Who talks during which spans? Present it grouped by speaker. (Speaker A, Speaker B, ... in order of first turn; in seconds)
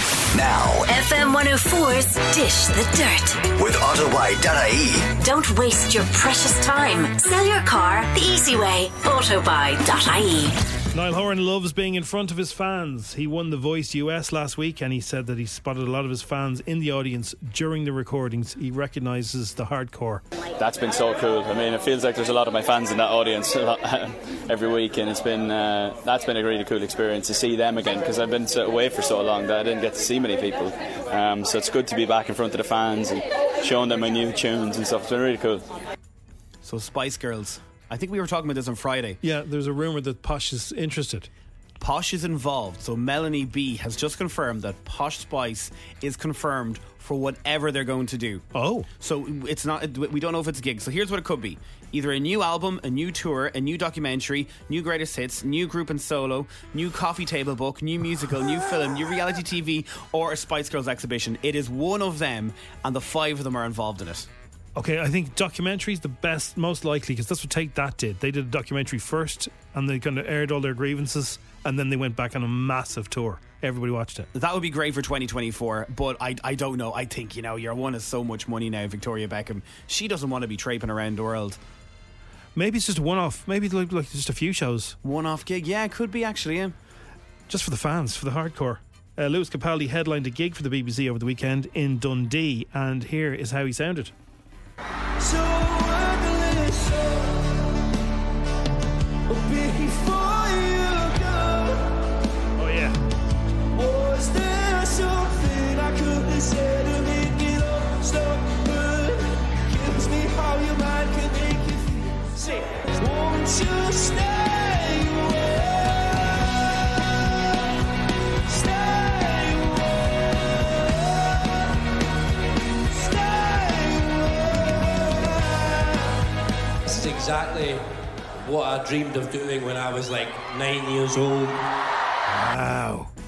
Speaker A: 0.3-0.9, 3.6-5.1
Speaker B: 0.9-3.5, 5.2-10.6
Speaker C: 10.9-20.2, 39.2-41.3, 48.5-48.9, 64.8-74.3, 82.5-85.0, 87.5-94.1, 102.5-103.0, 110.4-111.5, 132.3-133.1
Speaker D: 20.6-35.7
Speaker E: 36.6-39.2, 41.8-48.4, 49.0-64.3, 74.3-81.6, 85.0-86.7
Speaker F: 126.8-127.8, 128.4-131.6